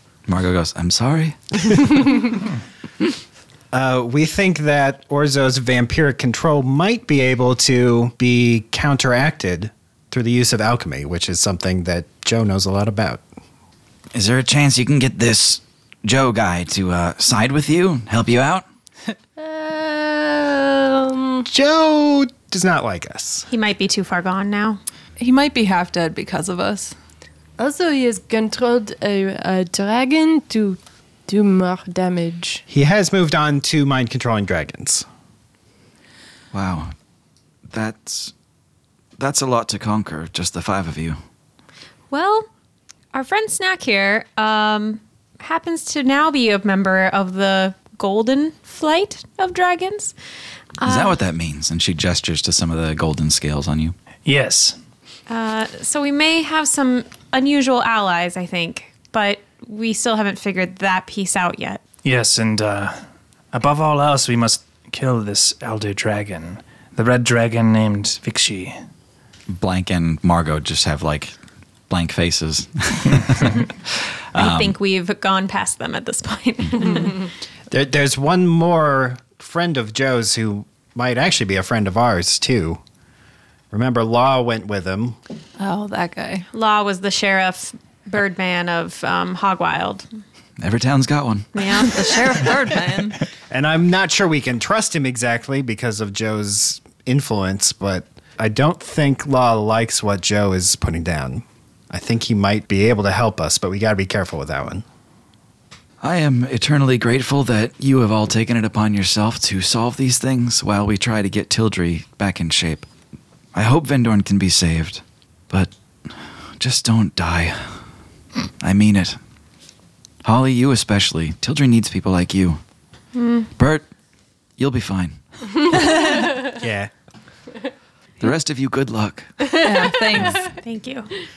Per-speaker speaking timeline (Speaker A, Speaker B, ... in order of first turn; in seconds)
Speaker A: 0.3-2.0, 14.1-18.6, 36.5-36.9, 37.7-38.3, 39.2-41.2, 50.8-53.9, 69.5-71.3, 71.9-73.7, 74.3-74.8, 90.6-91.8, 106.0-112.8, 113.5-117.8, 118.6-119.2, 120.2-122.6, 123.6-123.8, 124.6-125.2, 128.2-129.5
Speaker B: 3.7-13.2, 21.4-23.5, 32.7-35.0, 77.7-82.8, 83.7-85.2, 93.5-104.8, 126.4-126.9
Speaker C: 19.4-21.5, 27.6-32.6
Speaker D: 23.5-24.8, 42.1-42.5, 43.1-50.1, 50.8-51.2, 55.3-61.8, 74.3-77.2, 86.5-90.0, 91.5-92.5, 123.1-123.5, 130.4-131.1
Speaker E: 25.2-26.9, 85.6-86.5, 91.8-93.2, 129.6-130.5
Speaker F: 54.2-54.8, 62.0-68.8